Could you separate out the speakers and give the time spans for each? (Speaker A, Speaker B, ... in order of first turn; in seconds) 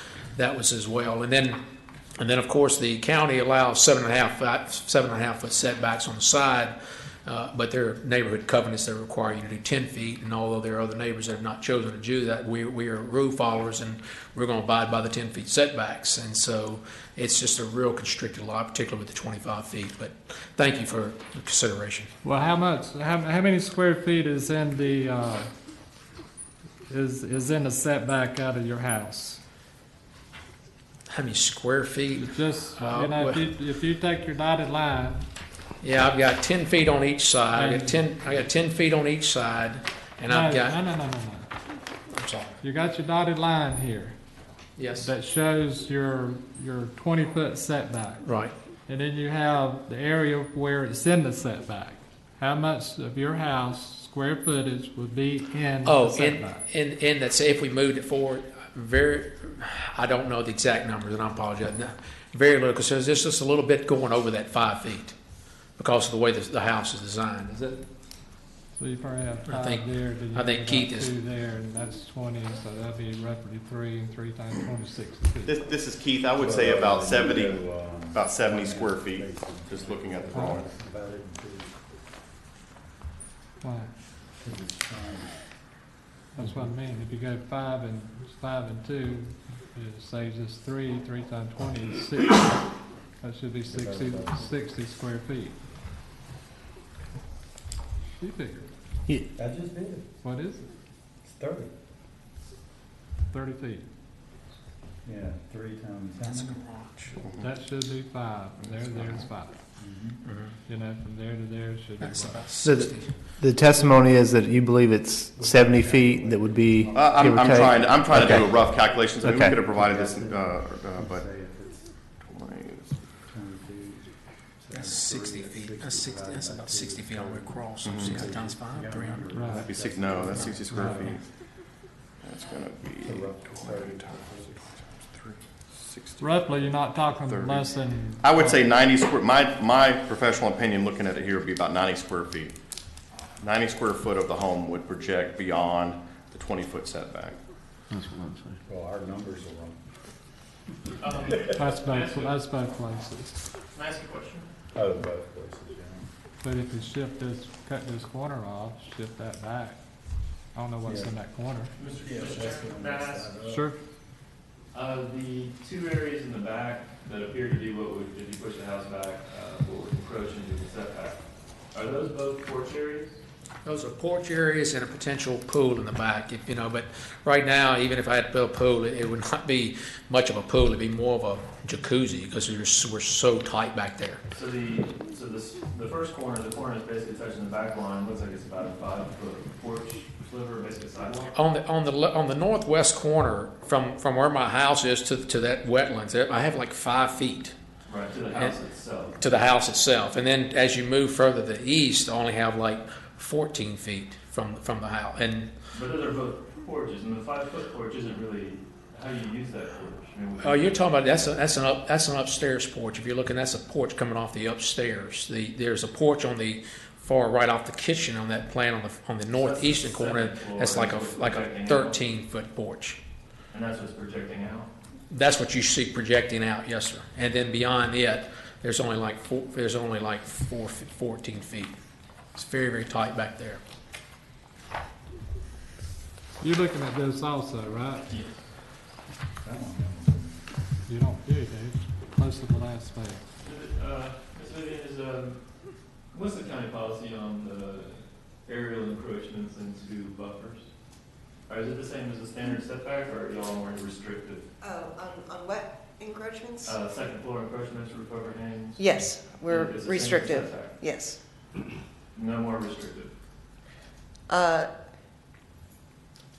Speaker A: 0.3-1.6, 2.2-22.1, 31.1-33.4, 35.8-40.8, 42.1-42.6, 44.8-45.1, 48.2-48.5, 55.8-65.2, 65.8-67.8, 69.5-71.1, 106.2-107.2, 110.2-110.6, 112.0-113.1, 124.7-129.3, 173.6-184.2, 191.3-197.6, 199.2-205.5, 210.4-223.0, 225.1-231.7, 232.3-233.6
Speaker B: 22.2-25.5, 26.9-29.4, 32.2-35.3, 37.5-38.2, 40.3-41.5, 42.6-44.2, 45.0-48.3, 48.9-56.7, 68.8-75.6, 83.6-83.9, 86.3-92.7, 93.2-95.6, 98.2-98.7, 100.2-100.7, 103.3-103.8, 107.4-109.6, 110.7-112.5, 129.3-129.7, 130.7-131.1, 136.2-138.7, 151.5-153.4, 156.4-159.8, 160.5-161.7, 163.4-163.8, 236.4-238.2, 240.9-243.2
Speaker C: 75.5-80.7, 107.2-107.5, 108.6-109.2, 116.9-121.2, 122.2-123.0, 127.8-128.2, 129.5-131.3, 132.2-142.6, 143.4-147.4
Speaker D: 76.4-81.8, 84.4-85.3, 93.7-94.5, 99.3-100.1, 101.2-101.7, 105.0-106.6, 109.8-110.2, 115.3-121.9, 123.3-131.1, 133.0-134.7, 148.7-149.8, 154.7-156.1, 160.8-161.1, 161.9-163.7, 239.4-240.5
Speaker E: 112.5-118.5, 119.2-119.6, 147.9-148.6
Speaker F: 151.0-152.4, 153.7-154.5, 161.8-163.3, 164.7-171.2, 171.7-173.1, 184.3-191.3, 197.9-199.2, 205.7-211.3, 219.3-222.1, 223.5-224.7, 243.4-245.4, 246.1-250.7, 251.5-254.4, 256.6-258.9, 259.5-260.8, 262.1-263.1
Speaker G: 254.6-256.8, 258.8-261.2, 264.3-264.7